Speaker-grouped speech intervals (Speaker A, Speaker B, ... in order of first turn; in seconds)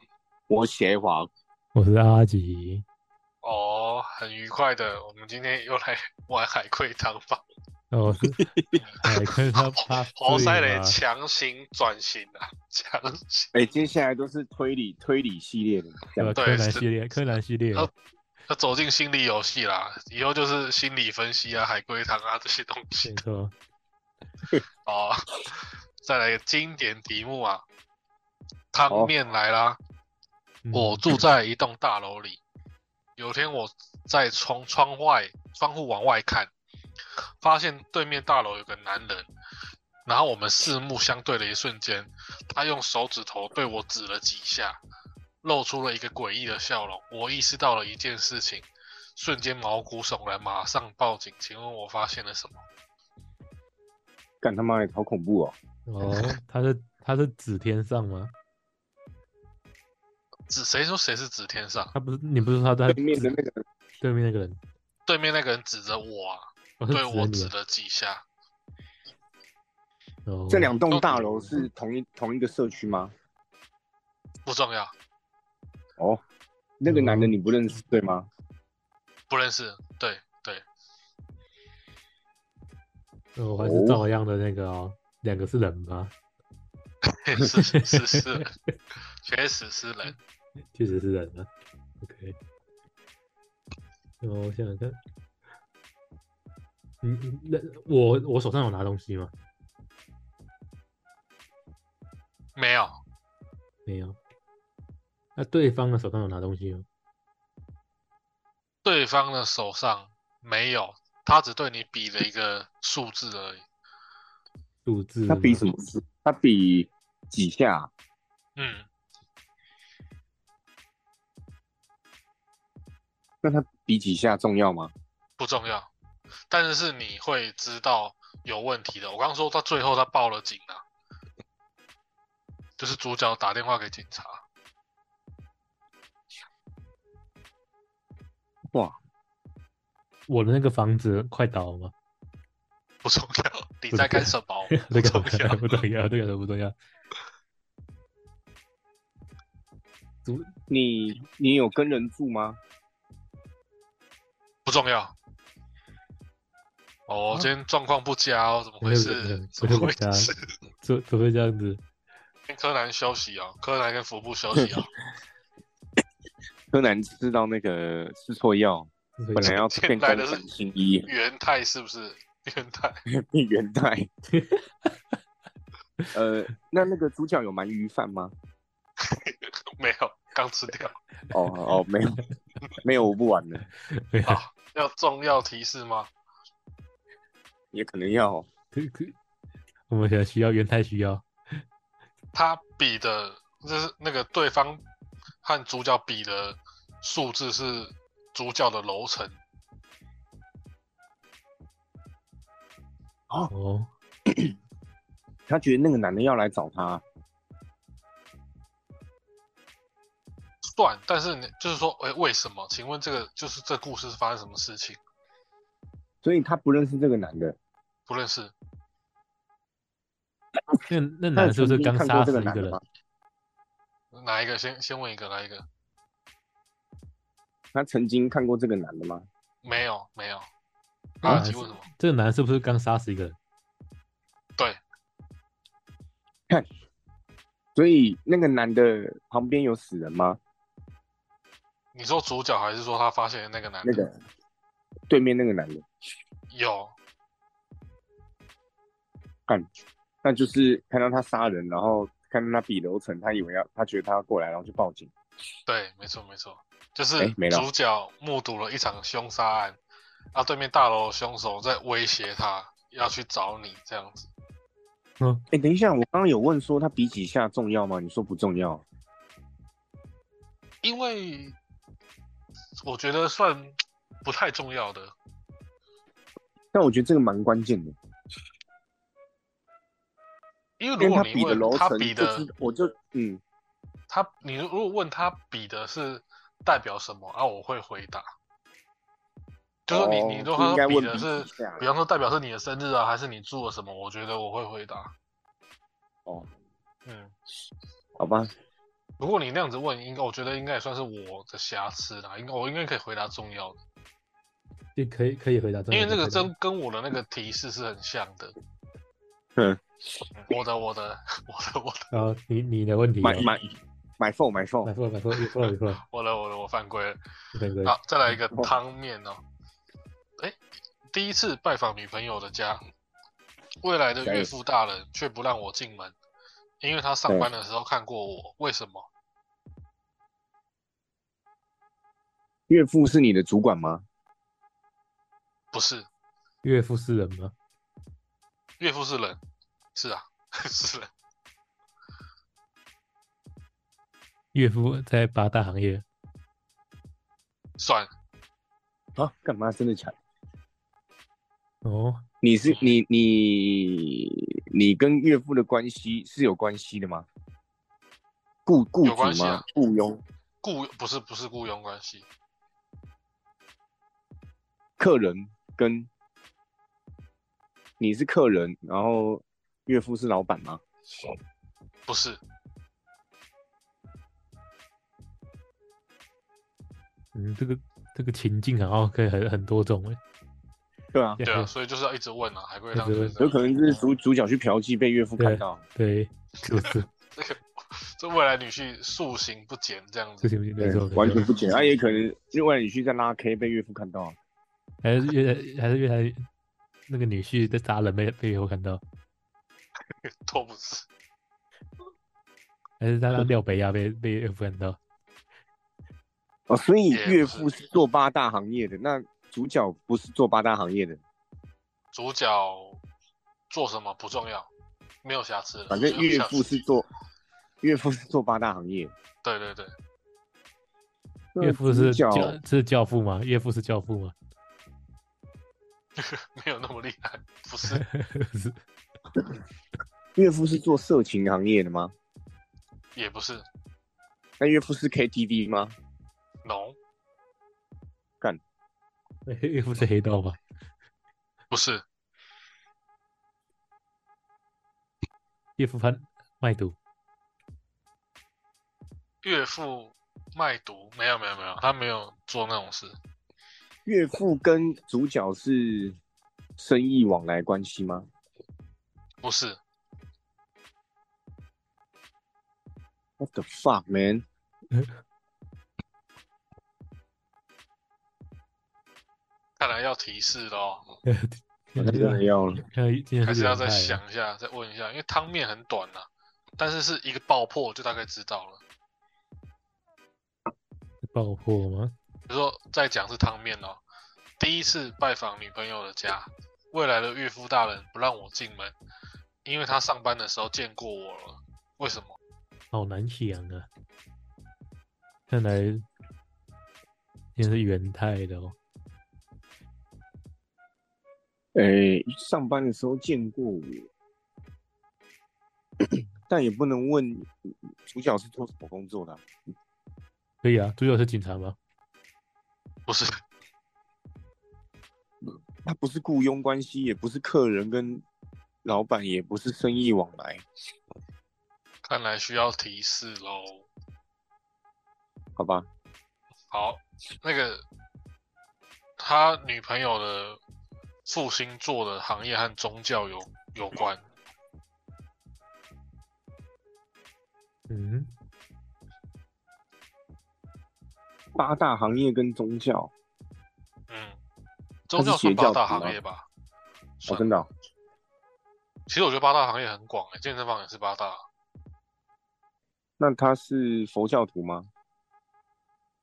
Speaker A: 0.5-1.3, 8.4-8.8, 13.5-16.3, 54.4-55.5, 62.9-63.6, 70.5-73.1, 76.8-78.3, 83.6-84.0, 115.3-117.9, 123.4-124.9, 150.7-152.6, 166.7-171.1, 173.1-174.1, 176.1-178.3, 181.3-182.2, 182.8-183.7, 187.7-188.5, 205.5-207.0, 216.2-217.6, 221.3-222.8, 227.7-229.2, 231.2-231.5, 237.7-240.4, 243.8-244.1, 245.1-245.8, 250.2-255.1, 257.2-257.6, 265.5-268.8, 276.7-277.9, 281.0-283.4, 289.9-291.8, 298.2-298.5, 309.6-309.8, 313.2-314.9, 324.2-324.5, 332.7-334.0, 349.1-350.1, 352.4-357.2, 358.6-360.2, 365.0-366.1, 368.0-370.8, 381.1-381.4, 383.4-385.8, 390.8-394.4, 406.7-411.2, 415.9-417.1, 417.8-419.1, 421.5-422.6, 430.3-432.1, 434.6-435.9, 454.1-456.2, 456.8-458.3, 463.4-464.4, 472.0-472.8, 501.7-504.1, 506.5-509.4, 515.8-518.2, 518.8-520.6, 525.6-525.9, 541.5-543.1, 545.1-546.1, 547.3-547.7, 553.2-554.9
Speaker B: 1.7-2.8, 7.9-8.4, 9.0-11.0, 16.2-17.9, 23.0-23.5, 30.6-31.2, 55.9-58.3, 61.9-63.3, 64.0-64.6, 66.8-67.5, 70.2-70.8, 76.9-77.3, 83.4-86.1, 87.7-88.4, 90.7-91.5, 92.0-92.3, 94.2-95.0, 97.0-99.3, 103.8-104.2, 105.3-106.8, 114.8-115.7, 140.3-141.9, 143.9-146.7, 150.2-150.5, 158.8-160.3, 160.8-161.8, 169.2-169.5, 174.3-174.6, 183.9-184.4, 188.7-189.2, 189.9-191.2, 203.5-203.9, 220.9-222.8, 231.2-233.3, 304.9-306.5, 312.1-313.5, 314.8-316.0, 317.5-317.9, 336.6-337.5, 344.5-346.0, 351.8-352.2, 377.3-380.2, 381.4-381.7, 382.9-383.3, 385.4-387.1, 390.4-391.4, 395.0-396.5, 397.1-399.0, 403.0-405.0, 421.6-424.3, 427.9-428.8, 439.4-440.6, 445.8-446.9, 471.2-474.2, 481.2-482.1, 492.9-493.9, 495.5-496.0, 497.6-498.8, 510.6-511.8, 537.9-538.3
Speaker C: 3.4-7.4, 8.8-9.1, 9.8-13.5, 16.4-16.9, 18.5-23.2, 24.9-27.6, 28.7-29.8, 30.7-32.4, 33.2-36.5, 37.4-39.3, 40.0-44.8, 45.4-52.6, 60.5-61.9, 65.0-68.2, 70.9-71.2, 74.5-74.9, 79.3-80.6, 87.1-88.5, 89.2-90.2, 102.5-103.0, 108.8-113.7, 118.5-118.9, 125.4-125.9, 126.5-130.8, 132.8-134.4, 143.0-145.8, 154.6-155.1, 157.1-160.3, 162.5-164.9, 169.4-170.4, 171.1-173.0, 179.0-180.9, 184.2-186.1, 192.3-194.8, 195.4-199.4, 210.7-215.0, 218.1-218.5, 224.1-225.7, 229.6-230.5, 231.2-231.8, 241.9-244.0, 246.5-246.9, 255.7-259.8, 260.3-264.3, 270.8-271.6, 272.8-275.1, 280.8-282.4, 284.1-288.2, 289.9-295.1, 297.1-297.3, 299.2-303.8, 305.9-308.5, 310.3-312.1, 316.0-317.2, 317.8-319.4, 321.1-322.8, 323.8-326.1, 326.8-329.1, 335.7-336.1, 338.8-339.4, 339.9-341.1, 347.8-348.1, 352.7-352.9, 359.0-359.6, 360.6-362.3, 372.1-372.4, 381.4-383.6, 386.8-390.5, 400.2-401.1, 407.1-407.7, 412.1-413.0, 413.7-414.7, 415.2-416.7, 419.4-419.9, 426.2-428.0, 433.1-433.6, 436.6-437.0, 441.7-442.0, 449.4-453.1, 459.4-459.8, 469.8-471.1, 473.4-476.3, 476.8-478.8, 482.5-484.0, 484.6-488.9, 489.6-492.3, 513.1-513.4, 522.0-523.9, 526.7-527.8, 529.2-530.6, 531.2-534.2, 544.1-544.4, 545.1-546.5, 547.2-547.5, 549.1-551.4